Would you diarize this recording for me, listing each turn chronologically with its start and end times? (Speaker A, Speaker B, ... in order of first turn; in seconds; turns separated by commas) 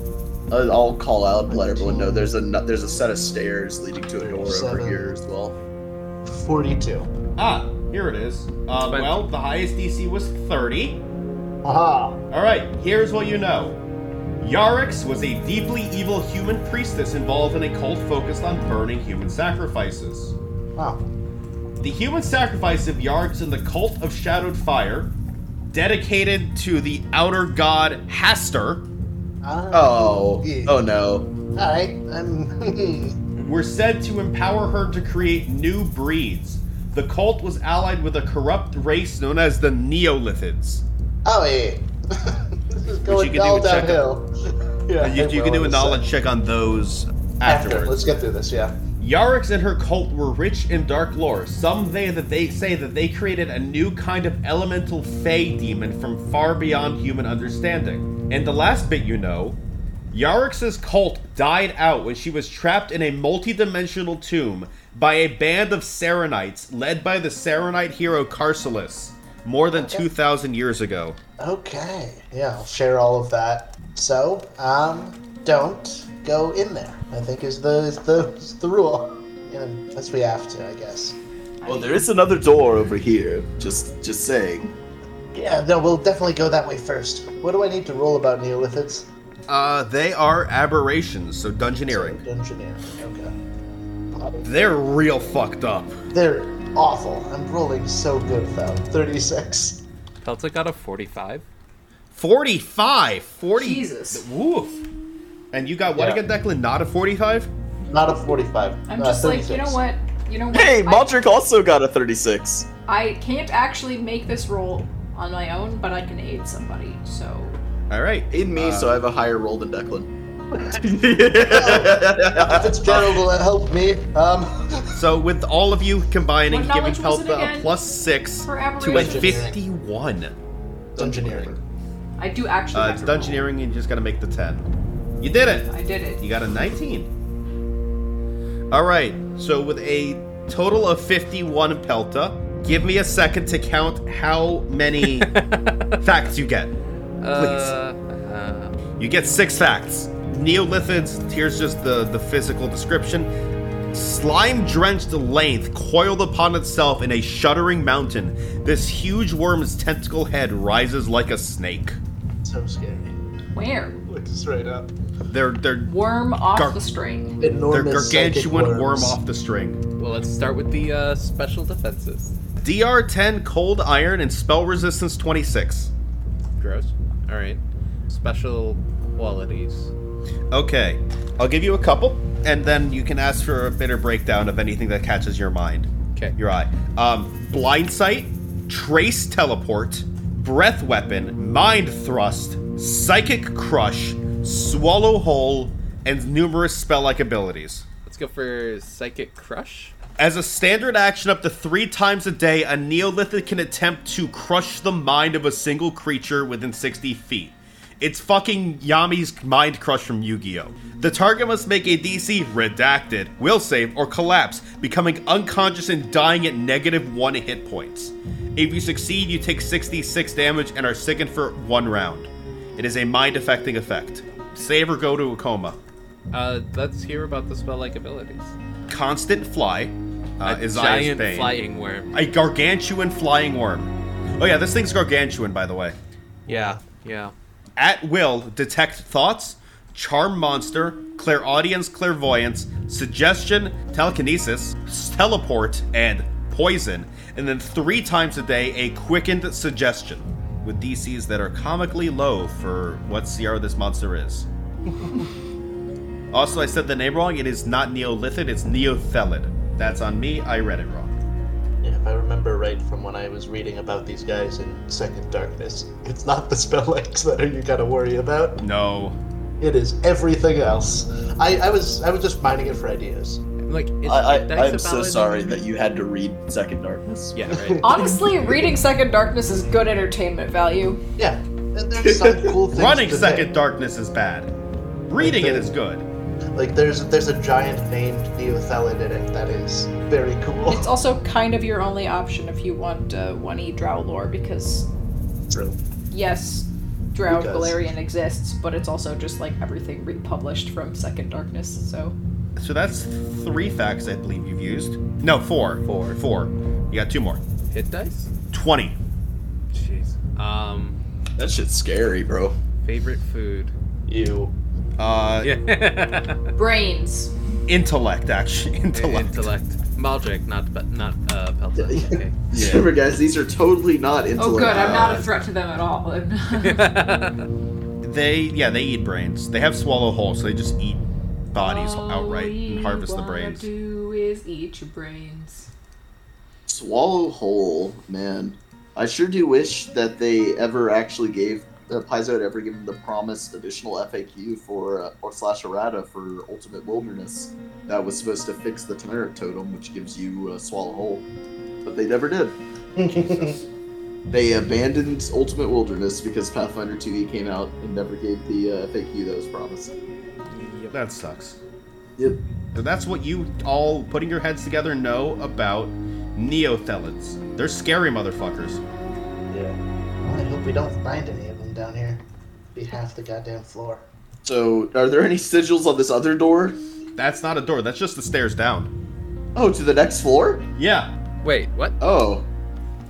Speaker A: 0.5-5.6, Speaker B: 1.5-2.3, Speaker B: 4.2-5.2, Speaker B: 6.3-7.1, Speaker C: 7.4-11.0, Speaker D: 8.8-9.2, Speaker B: 11.6-12.2, Speaker C: 12.3-13.8, Speaker C: 14.4-20.4, Speaker B: 20.8-21.0, Speaker C: 21.8-25.1, Speaker C: 25.7-28.9, Speaker B: 29.4-30.8, Speaker A: 29.7-31.3, Speaker B: 31.6-33.2, Speaker C: 33.4-40.9, Speaker B: 41.2-44.3, Speaker C: 43.1-44.0, Speaker B: 44.9-46.0, Speaker C: 45.0-48.0, Speaker B: 47.5-48.8, Speaker C: 49.0-59.6, Speaker C: 60.1-71.2, Speaker B: 69.8-70.0, Speaker B: 71.4-81.2, Speaker A: 81.7-84.7, Speaker B: 85.3-89.1, Speaker C: 89.5-92.2, Speaker B: 91.9-93.3, Speaker B: 94.1-94.5, Speaker C: 94.4-96.0, Speaker B: 96.1-99.8, Speaker D: 100.2-101.5, Speaker C: 102.1-104.8, Speaker E: 103.5-104.3, Speaker C: 105.5-107.5, Speaker B: 106.0-106.2, Speaker B: 107.9-109.8, Speaker E: 108.9-111.2, Speaker A: 110.5-112.7, Speaker E: 112.9-117.6, Speaker C: 117.9-119.0, Speaker A: 118.3-120.1, Speaker A: 120.7-123.2, Speaker B: 121.4-125.0, Speaker C: 125.0-130.3, Speaker E: 126.5-127.8, Speaker E: 128.4-129.5, Speaker B: 128.9-129.6, Speaker A: 130.9-131.6, Speaker B: 131.0-131.6, Speaker E: 132.2-133.5, Speaker C: 132.7-134.7, Speaker C: 135.2-137.1, Speaker E: 135.7-136.2, Speaker C: 138.7-145.3, Speaker D: 145.1-146.0, Speaker C: 146.0-146.7, Speaker D: 147.2-148.8, Speaker C: 147.3-147.8, Speaker C: 149.0-153.3, Speaker C: 153.9-162.0, Speaker B: 162.4-163.2, Speaker E: 163.5-164.0, Speaker B: 164.1-164.9, Speaker C: 165.3-165.9, Speaker E: 165.9-167.4, Speaker C: 166.5-166.8, Speaker B: 167.4-169.2, Speaker C: 167.7-169.8, Speaker D: 170.0-172.3, Speaker C: 172.6-175.9, Speaker D: 176.6-179.9, Speaker C: 180.5-197.8, Speaker D: 198.1-199.9, Speaker C: 200.2-225.8, Speaker D: 226.3-228.6, Speaker C: 228.9-231.6, Speaker D: 230.4-232.1, Speaker C: 232.1-236.0, Speaker B: 236.5-236.8, Speaker D: 236.5-237.3, Speaker C: 237.8-254.5, Speaker C: 256.3-261.1, Speaker B: 261.8-268.6, Speaker C: 268.6-269.2, Speaker B: 269.6-273.4, Speaker D: 273.7-275.6, Speaker A: 274.1-277.4, Speaker D: 277.3-278.0, Speaker B: 277.5-278.7, Speaker E: 277.8-281.0, Speaker B: 281.2-283.5, Speaker A: 282.0-282.5, Speaker C: 282.7-284.5, Speaker C: 285.1-286.1, Speaker B: 285.2-285.8, Speaker B: 286.6-290.9, Speaker E: 290.7-294.9, Speaker B: 295.5-295.8, Speaker E: 296.1-302.2, Speaker B: 297.3-297.8, Speaker C: 302.6-307.4, Speaker D: 305.9-306.2, Speaker D: 307.7-308.3, Speaker C: 308.5-309.0, Speaker D: 309.7-311.0, Speaker A: 311.4-312.6, Speaker D: 312.8-313.7, Speaker B: 314.1-314.5, Speaker C: 315.0-315.5, Speaker D: 315.4-316.5, Speaker E: 316.6-317.3, Speaker C: 317.7-319.5, Speaker D: 318.9-322.4, Speaker A: 322.5-325.3, Speaker C: 322.5-322.9, Speaker E: 324.4-326.9, Speaker D: 326.6-327.4, Speaker C: 328.0-333.7, Speaker E: 331.6-335.7, Speaker A: 336.7-351.3, Speaker A: 351.9-352.6, Speaker B: 353.0-353.6, Speaker A: 354.3-360.0, Speaker D: 360.5-360.9, Speaker C: 360.9-361.6, Speaker C: 362.8-368.8, Speaker B: 369.5-372.2, Speaker B: 372.8-374.1, Speaker A: 374.4-376.8, Speaker C: 377.2-378.9, Speaker A: 379.6-380.7, Speaker C: 380.8-381.1, Speaker D: 381.4-382.0, Speaker A: 382.0-382.5